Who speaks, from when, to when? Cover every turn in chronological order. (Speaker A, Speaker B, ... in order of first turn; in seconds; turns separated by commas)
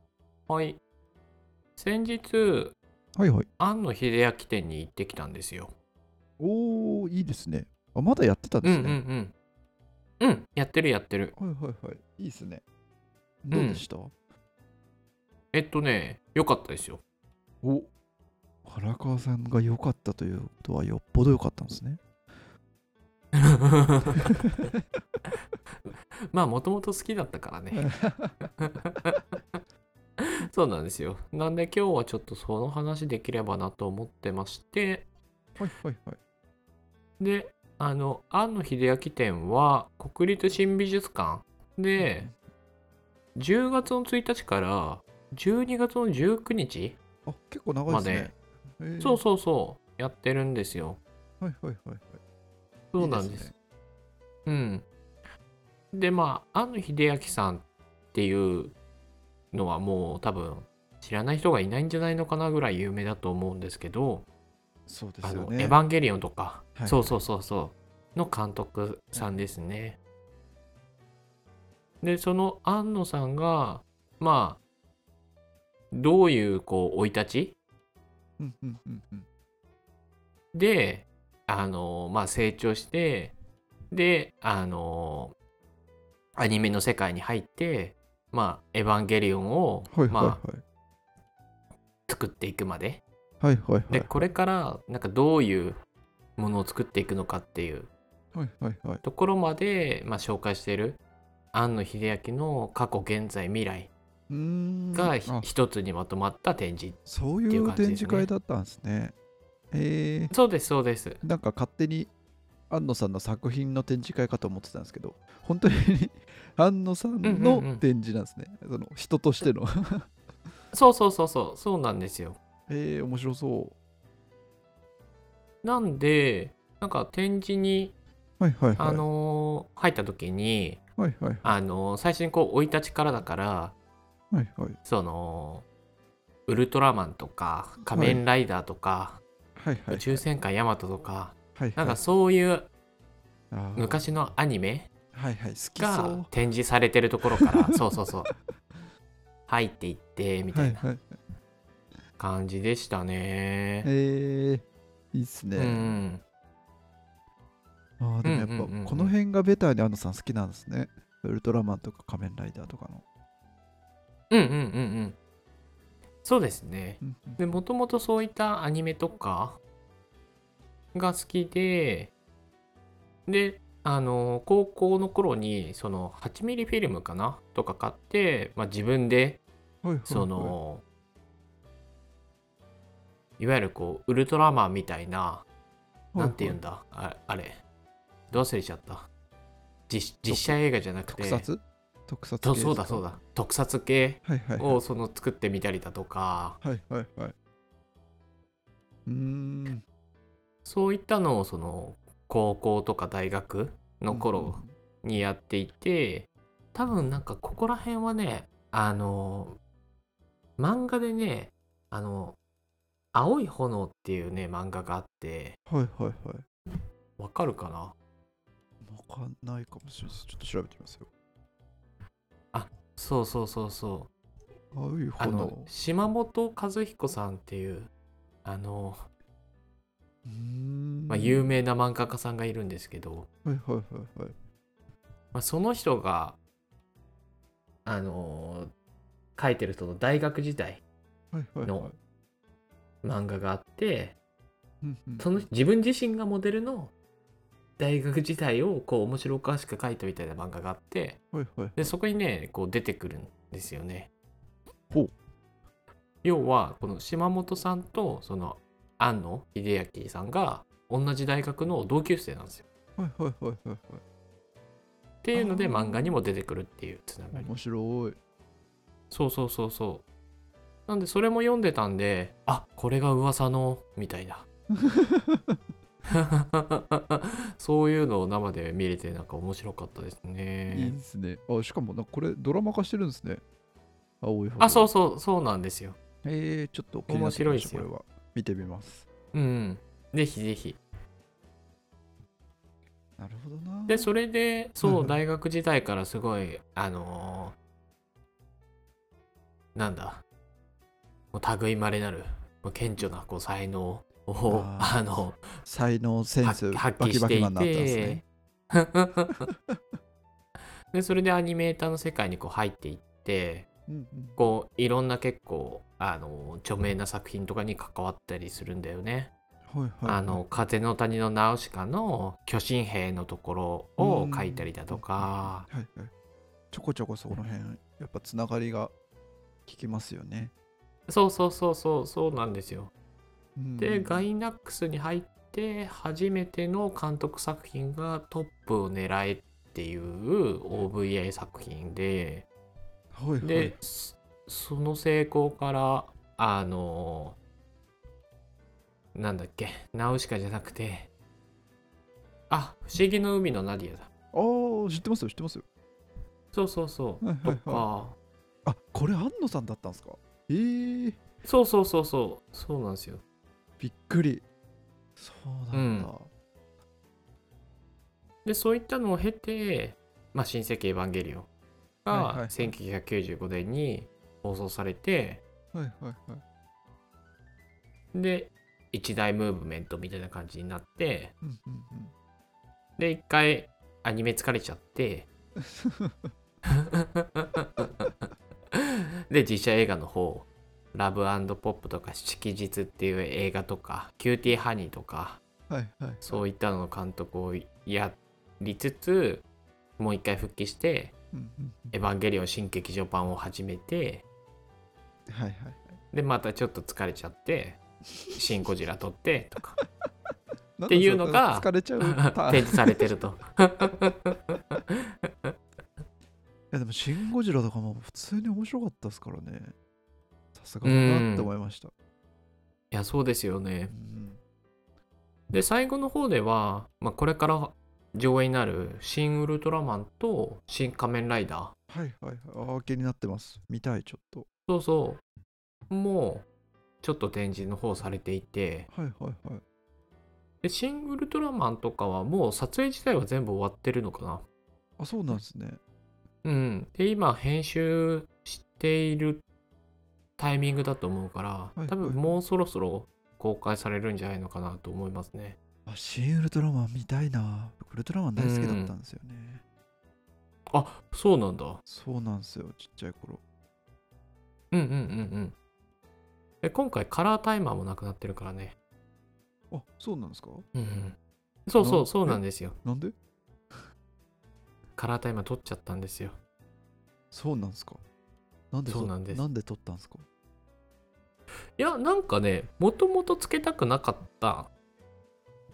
Speaker A: 0.5-0.8, Speaker A: 1.8-2.8, Speaker B: 3.1-3.5, Speaker A: 3.6-5.7, Speaker B: 6.4-9.0, Speaker A: 8.6-9.3, Speaker A: 10.2-11.3, Speaker B: 11.3-12.6, Speaker B: 13.4-14.1, Speaker A: 13.5-13.8, Speaker A: 15.5-17.0, Speaker B: 17.6-17.9, Speaker B: 18.6-22.0, Speaker A: 23.4-24.4, Speaker B: 24.4-24.7, Speaker A: 26.3-27.9, Speaker B: 27.7-28.5, Speaker A: 28.6-29.1, Speaker A: 30.2-35.0, Speaker B: 35.6-36.2, Speaker A: 37.2-42.3, Speaker B: 42.0-42.3, Speaker A: 43.4-47.0, Speaker B: 47.2-49.2, Speaker A: 47.9-48.3, Speaker A: 49.0-51.0, Speaker B: 51.4-52.2, Speaker A: 52.9-53.5, Speaker B: 53.0-53.5, Speaker A: 54.5-54.9, Speaker A: 55.9-58.8, Speaker A: 59.5-64.2, Speaker B: 64.9-65.8, Speaker A: 65.2-70.0, Speaker B: 66.7-67.2, Speaker B: 69.1-69.4, Speaker A: 72.0-74.6, Speaker A: 75.9-77.5, Speaker B: 78.4-79.2, Speaker A: 80.5-83.3, Speaker A: 83.9-85.3, Speaker A: 86.3-90.4, Speaker B: 89.9-90.6, Speaker A: 92.1-93.0, Speaker B: 93.4-94.3, Speaker A: 93.9-95.8, Speaker A: 96.4-97.9, Speaker B: 98.3-99.0, Speaker A: 99.0-101.0, Speaker A: 101.5-103.9, Speaker B: 104.3-105.5, Speaker A: 104.9-108.3, Speaker B: 107.0-109.1, Speaker B: 109.7-110.3, Speaker A: 110.3-111.2, Speaker B: 111.2-112.1, Speaker B: 112.7-120.1, Speaker A: 117.2-117.8, Speaker A: 120.7-122.4, Speaker B: 122.7-123.8, Speaker A: 125.6-127.9, Speaker B: 128.4-129.0, Speaker A: 128.8-130.8, Speaker B: 131.0-131.5, Speaker A: 131.4-133.7, Speaker B: 134.3-134.8, Speaker A: 134.8-135.7, Speaker A: 136.5-139.2, Speaker B: 137.9-138.2, Speaker B: 139.6-140.2, Speaker A: 139.9-142.7, Speaker B: 141.6-142.0, Speaker B: 143.5-144.0, Speaker A: 143.8-144.9, Speaker B: 145.1-146.3, Speaker A: 145.8-148.3, Speaker B: 147.4-147.7, Speaker A: 149.5-150.8, Speaker B: 150.5-151.2, Speaker A: 152.2-153.9, Speaker B: 153.8-155.9, Speaker A: 155.6-156.2, Speaker B: 158.0-163.0, Speaker A: 158.2-159.1, Speaker A: 164.3-165.2, Speaker A: 166.2-169.6, Speaker B: 167.0-167.4, Speaker A: 170.9-172.1, Speaker A: 173.3-179.4, Speaker B: 179.8-180.6, Speaker A: 180.1-180.8, Speaker A: 183.4-185.4, Speaker B: 186.1-186.6, Speaker A: 186.2-187.6, Speaker A: 188.3-189.1, Speaker A: 189.9-191.5, Speaker B: 190.3-193.1, Speaker A: 192.4-196.6, Speaker B: 194.2-194.8, Speaker B: 196.6-197.3, Speaker B: 199.1-199.8, Speaker A: 200.6-209.6, Speaker B: 204.1-204.7, Speaker A: 210.6-212.4, Speaker A: 213.1-215.6, Speaker B: 215.7-216.4, Speaker A: 217.2-217.9, Speaker B: 218.8-221.1, Speaker A: 222.5-224.1, Speaker B: 224.7-225.7, Speaker A: 225.2-227.9, Speaker A: 228.4-229.1, Speaker B: 230.2-231.5, Speaker A: 231.1-233.3, Speaker B: 233.4-234.3, Speaker A: 235.3-236.4, Speaker A: 237.8-238.7, Speaker A: 239.3-240.8, Speaker B: 241.3-241.9, Speaker A: 241.6-241.9, Speaker A: 243.0-244.2, Speaker B: 244.8-245.3, Speaker A: 245.2-246.9, Speaker A: 247.8-251.2, Speaker B: 251.3-251.9, Speaker A: 251.8-254.1, Speaker A: 256.2-262.6, Speaker B: 263.0-264.0, Speaker A: 265.2-267.5, Speaker B: 265.3-266.2, Speaker B: 267.3-268.2, Speaker A: 269.1-270.1, Speaker A: 270.9-274.4, Speaker B: 274.7-275.6, Speaker A: 276.1-280.9, Speaker B: 280.7-283.4, Speaker B: 284.2-284.9, Speaker A: 284.6-285.9, Speaker B: 286.2-289.1, Speaker A: 287.1-287.9, Speaker A: 289.3-290.8, Speaker B: 293.2-294.1, Speaker A: 293.9-297.6, Speaker B: 294.8-295.2, Speaker A: 299.7-300.2, Speaker A: 301.3-305.5, Speaker B: 304.5-308.2, Speaker A: 306.4-309.4, Speaker A: 310.9-313.6, Speaker B: 313.9-314.4, Speaker A: 314.4-319.3, Speaker B: 319.7-320.4, Speaker A: 320.0-325.7, Speaker B: 324.0-326.1, Speaker B: 326.7-328.9, Speaker B: 329.7-330.5, Speaker A: 331.1-332.9, Speaker B: 333.6-334.3, Speaker A: 333.8-342.5, Speaker B: 343.1-343.8, Speaker A: 343.4-347.4, Speaker A: 349.1-351.1, Speaker A: 352.5-354.1, Speaker B: 354.3-355.6, Speaker A: 356.5-358.1, Speaker B: 357.2-357.9, Speaker B: 358.6-361.2, Speaker A: 361.4-363.2, Speaker B: 363.8-364.4, Speaker B: 365.2-366.3, Speaker A: 365.7-366.1, Speaker A: 368.4-371.5, Speaker A: 372.0-375.4, Speaker B: 372.1-372.7, Speaker B: 375.7-376.4, Speaker A: 378.1-381.3, Speaker B: 381.4-382.1, Speaker A: 383.0-385.3, Speaker B: 385.6-386.3, Speaker A: 386.7-388.1, Speaker A: 388.7-395.4, Speaker B: 395.7-396.4, Speaker A: 396.2-399.4, Speaker A: 400.0-401.1, Speaker B: 401.3-401.9, Speaker A: 401.9-404.2, Speaker B: 405.3-406.0, Speaker A: 406.1-407.8, Speaker A: 408.3-409.8, Speaker B: 410.8-413.1, Speaker A: 410.9-414.8, Speaker B: 416.7-419.7, Speaker B: 420.5-421.9, Speaker A: 420.8-421.5, Speaker A: 422.9-423.9, Speaker B: 423.9-424.4, Speaker A: 425.5-431.7, Speaker B: 431.9-434.5, Speaker A: 434.7-435.2, Speaker A: 435.9-436.4, Speaker A: 437.0-438.9, Speaker B: 438.9-439.6, Speaker A: 440.6-444.4, Speaker B: 445.0-445.8, Speaker A: 446.4-449.4, Speaker A: 450.4-455.6, Speaker B: 451.8-452.4, Speaker B: 455.9-459.6, Speaker A: 458.4-458.9, Speaker A: 460.7-461.8, Speaker B: 461.9-463.4, Speaker A: 464.7-465.5, Speaker A: 466.6-468.8, Speaker B: 469.7-470.6, Speaker A: 470.7-471.1, Speaker A: 471.7-472.8, Speaker B: 471.8-473.1, Speaker A: 474.9-476.4, Speaker B: 477.3-478.0, Speaker B: 478.7-480.2, Speaker A: 478.9-479.4, Speaker A: 481.8-484.7